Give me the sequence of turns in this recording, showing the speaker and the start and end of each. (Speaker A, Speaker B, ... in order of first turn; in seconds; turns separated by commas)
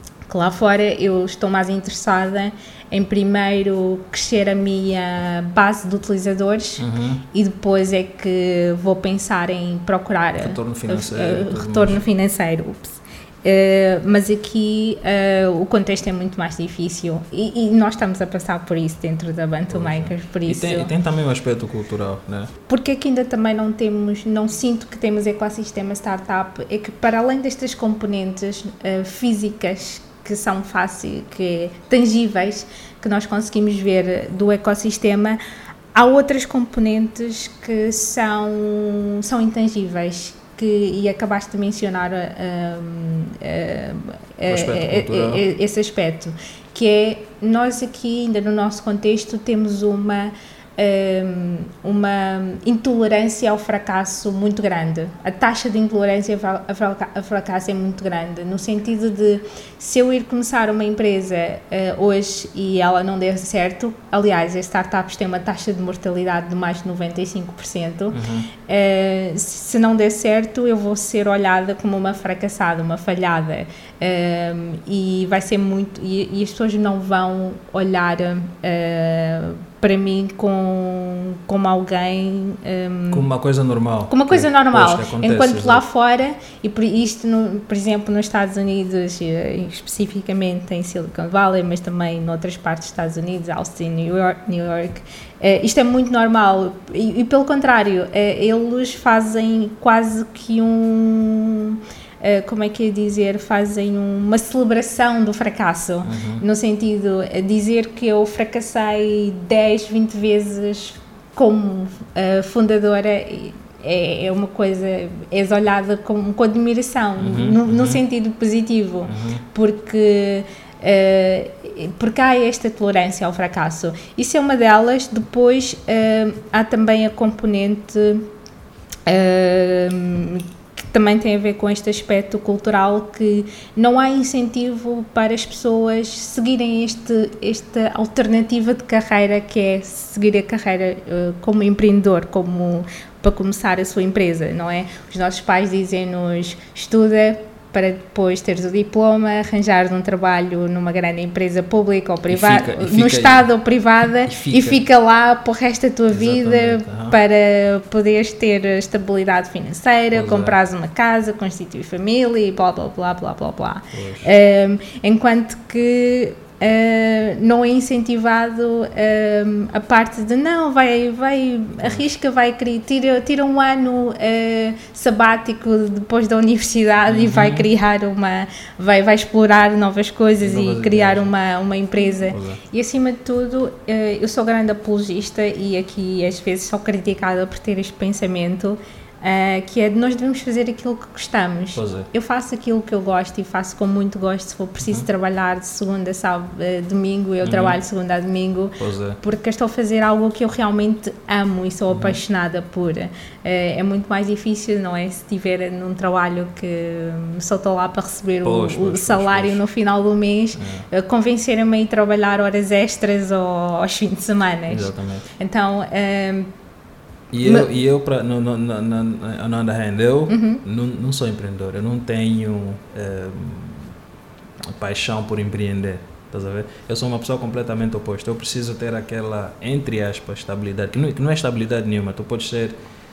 Speaker A: 0.3-20.9, Speaker B: 6.8-7.2, Speaker B: 10.4-12.0, Speaker B: 19.7-22.5, Speaker A: 22.7-35.4, Speaker A: 36.0-83.3, Speaker B: 44.5-45.4, Speaker B: 68.1-68.5, Speaker B: 83.1-85.8, Speaker A: 84.1-128.3, Speaker B: 106.0-106.4, Speaker B: 117.2-118.0, Speaker B: 119.1-119.4, Speaker A: 129.1-216.5, Speaker B: 152.3-153.5, Speaker B: 154.1-154.8, Speaker B: 156.1-157.2, Speaker B: 160.1-160.6, Speaker B: 163.9-164.3, Speaker B: 177.1-177.7, Speaker B: 180.4-181.3, Speaker B: 182.3-182.6, Speaker B: 191.8-192.1, Speaker B: 197.4-197.8, Speaker B: 198.8-199.2, Speaker B: 201.9-202.2, Speaker B: 208.4-209.6, Speaker B: 210.6-210.9, Speaker B: 214.7-215.3, Speaker B: 217.3-223.9, Speaker A: 220.3-220.6, Speaker B: 224.6-232.8